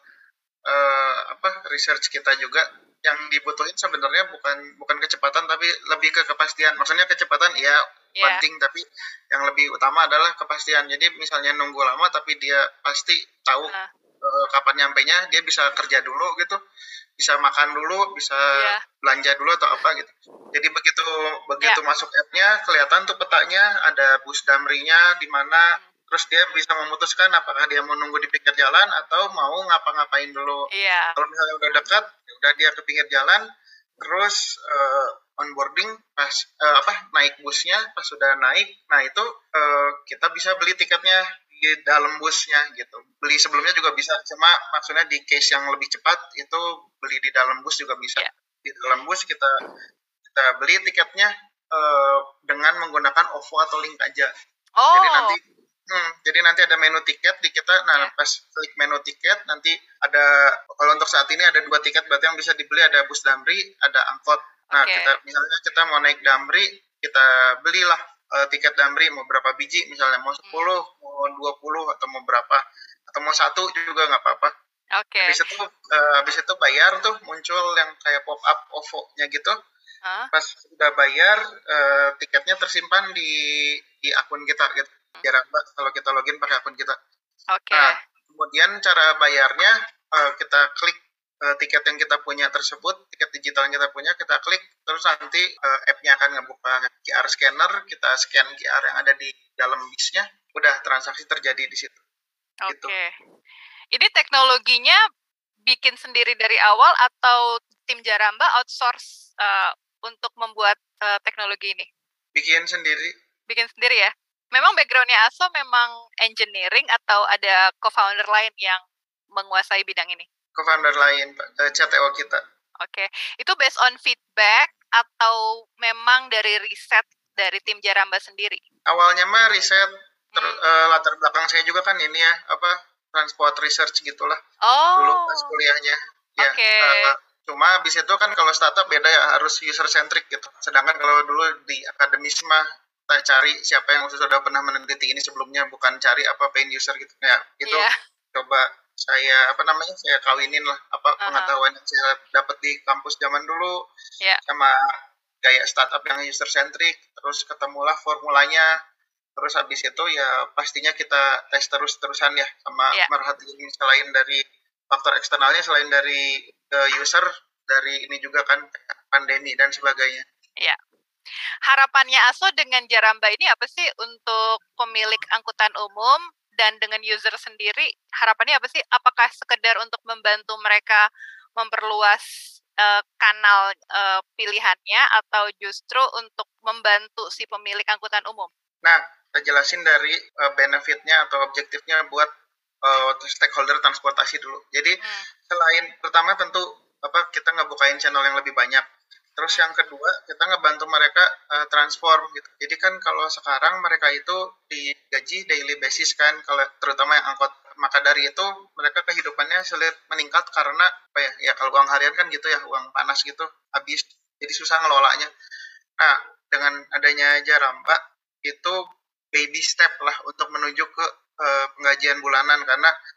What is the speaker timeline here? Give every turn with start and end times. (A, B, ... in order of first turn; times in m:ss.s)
0:00.7-0:16.6 A
0:08.2-0:08.4 B
0:17.2-0:30.6 A
0:18.6-0:18.8 B
0:30.7-0:31.2 B
0:31.2-0:33.4 A
0:34.0-0:49.5 A
0:50.3-0:54.3 A
0:54.8-0:55.4 B
0:54.9-1:14.5 A
1:04.7-1:05.2 B
1:15.0-1:15.4 B
1:15.2-1:19.5 A
1:20.0-1:20.3 B
1:20.3-1:23.4 A
1:23.9-1:27.0 A
1:27.5-1:27.9 B
1:27.7-1:42.0 A
1:42.6-1:43.1 B
1:42.7-1:42.9 A
1:43.9-1:45.0 B
1:45.7-1:51.9 B
1:52.3-1:53.1 A
1:53.5-1:58.8 B
1:59.3-2:00.3 B
2:00.6-2:02.4 A
2:02.8-2:08.6 B
2:08.9-2:14.4 A
2:10.3-2:10.6 B
2:14.6-2:15.6 B
2:15.0-2:33.7 A
2:16.4-2:17.1 B
2:27.6-2:27.9 B
2:31.2-2:31.5 B
2:34.5-2:34.8 A
2:35.4-2:38.7 A
2:39.4-2:50.2 A
2:51.7-3:01.0 B
3:01.6-3:02.2 B
3:02.8-3:08.5 B
3:08.8-3:12.3 A
3:12.8-3:14.9 A
3:15.0-3:15.3 B
3:15.5-3:18.8 A
3:19.4-3:35.3 A
3:36.0-3:38.8 A
3:39.3-3:42.9 A